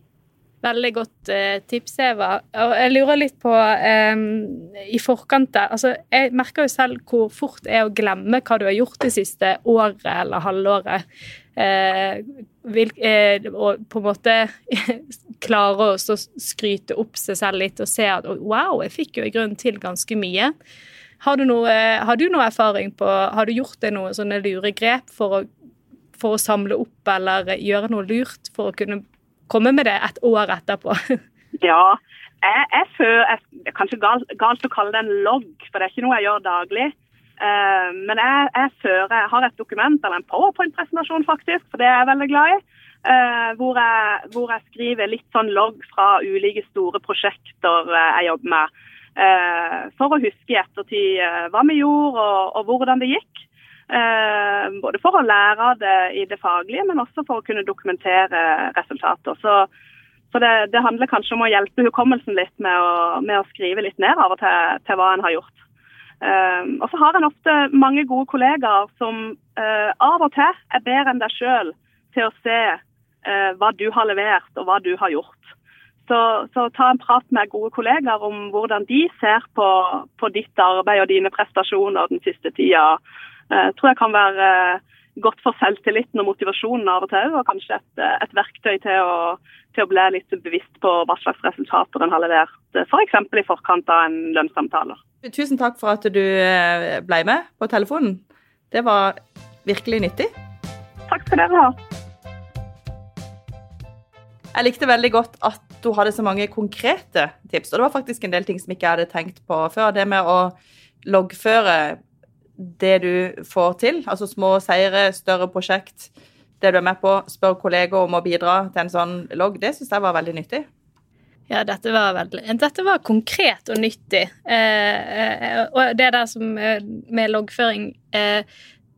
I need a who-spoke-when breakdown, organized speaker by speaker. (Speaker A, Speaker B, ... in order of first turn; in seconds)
Speaker A: 0.6-11.0, 11.6-20.5, 21.2-25.5, 26.1-31.2, 121.5-128.4
Speaker B: 31.6-59.7, 60.3-65.5, 66.2-75.5, 76.1-83.0, 83.5-95.0, 101.1-101.7
Speaker C: 95.2-100.3, 104.5-112.0, 112.6-116.1, 116.6-120.7